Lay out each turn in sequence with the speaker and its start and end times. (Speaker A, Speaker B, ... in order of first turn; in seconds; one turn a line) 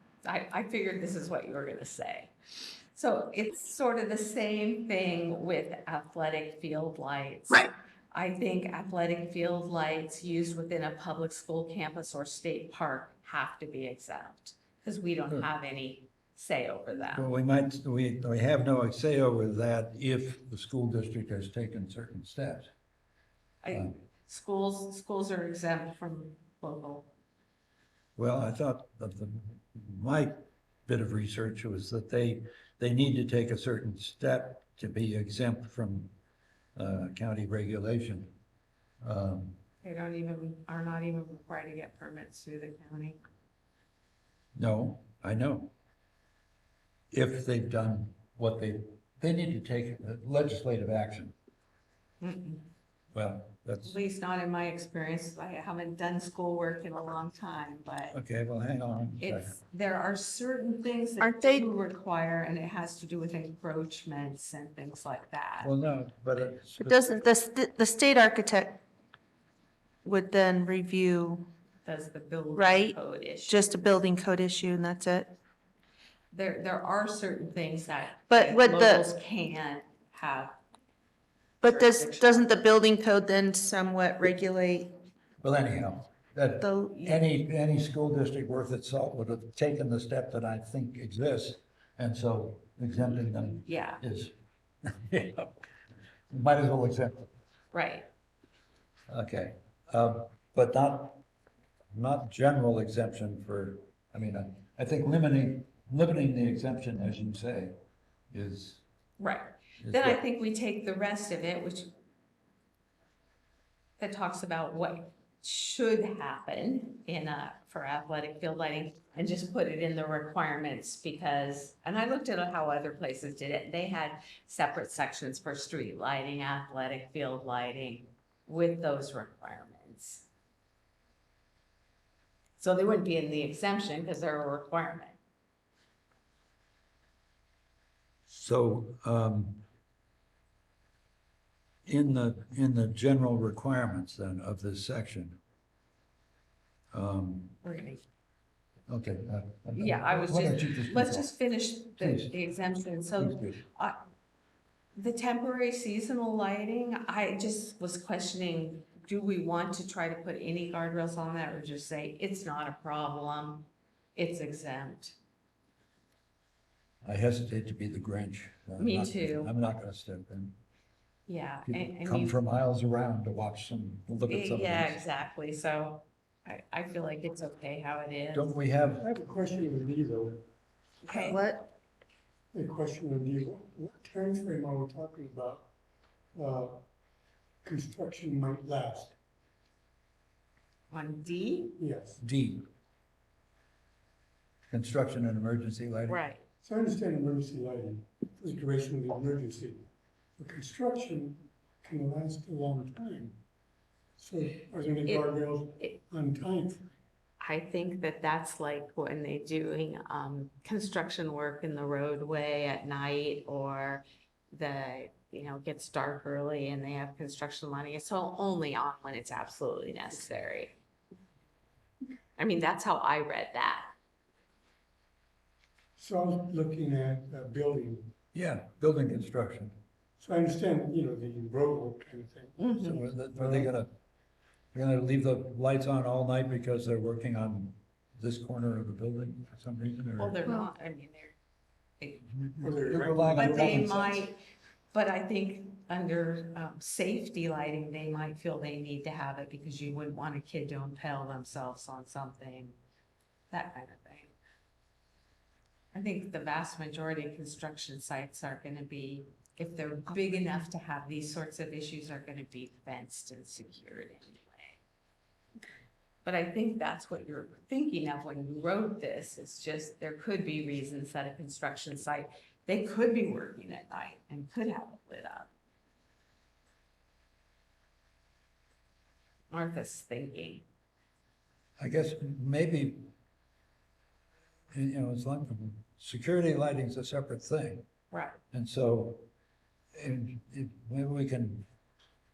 Speaker A: 0.2-2.3
Speaker A: 2.9-17.3
Speaker B: 17.1-22.7
Speaker A: 23.6-27.1
Speaker B: 28.1-36.1
Speaker B: 36.8-38.3
Speaker B: 39.0-39.5
Speaker A: 39.8-43.2
Speaker B: 44.5-45.7
Speaker B: 47.1-51.3
Speaker A: 52.2-52.7
Speaker B: 53.1-54.0
Speaker A: 53.8-58.2
Speaker B: 58.1-59.5
Speaker A: 59.2-65.7
Speaker C: 61.2-61.7
Speaker B: 65.6-67.2
Speaker C: 66.8-68.8
Speaker C: 70.0-71.5
Speaker A: 71.8-73.7
Speaker C: 72.5-75.3
Speaker A: 76.3-80.6
Speaker C: 78.3-79.0
Speaker C: 81.6-84.9
Speaker A: 81.7-82.6
Speaker B: 85.4-94.3
Speaker C: 86.6-87.1
Speaker A: 93.6-94.0
Speaker B: 94.8-95.6
Speaker B: 96.3-97.3
Speaker A: 97.7-98.1
Speaker B: 99.1-101.2
Speaker B: 101.9-107.7
Speaker B: 108.3-108.8
Speaker A: 109.2-111.9
Speaker B: 109.8-110.2
Speaker A: 114.0-130.3
Speaker A: 132.6-135.2
Speaker B: 138.3-139.6
Speaker B: 141.8-145.4
Speaker B: 146.9-147.5
Speaker A: 147.6-148.0
Speaker B: 148.9-151.3
Speaker A: 149.7-154.0
Speaker B: 152.0-152.5
Speaker B: 153.2-153.6
Speaker A: 154.9-165.2
Speaker B: 167.0-170.6
Speaker A: 168.8-169.5
Speaker A: 171.3-172.4
Speaker B: 171.7-175.0
Speaker A: 174.3-178.6
Speaker B: 178.3-179.0
Speaker D: 178.9-180.4
Speaker A: 181.0-181.4
Speaker C: 181.1-181.7
Speaker D: 182.5-185.7
Speaker D: 186.3-186.8
Speaker D: 187.6-189.1
Speaker A: 190.9-191.8
Speaker D: 191.8-192.2
Speaker B: 192.2-192.7
Speaker B: 194.7-196.2
Speaker A: 196.1-196.4
Speaker D: 196.6-199.9
Speaker D: 200.4-203.4
Speaker D: 204.2-206.9
Speaker A: 205.1-205.9
Speaker A: 207.4-220.8
Speaker A: 222.4-223.9
Speaker D: 225.9-228.1
Speaker B: 228.3-229.8
Speaker D: 230.2-233.7
Speaker A: 232.6-233.0
Speaker B: 232.9-233.9
Speaker B: 234.7-240.4
Speaker A: 240.2-241.3
Speaker A: 242.0-244.4
Speaker D: 242.6-244.2
Speaker B: 242.6-244.2
Speaker A: 244.9-252.8
Speaker A: 253.5-254.3
Speaker A: 255.9-264.8
Speaker A: 266.2-275.5
Speaker A: 279.5-280.6
Speaker B: 281.8-283.1
Speaker B: 284.7-287.9
Speaker A: 288.1-288.4
Speaker B: 288.5-289.2
Speaker B: 289.9-291.7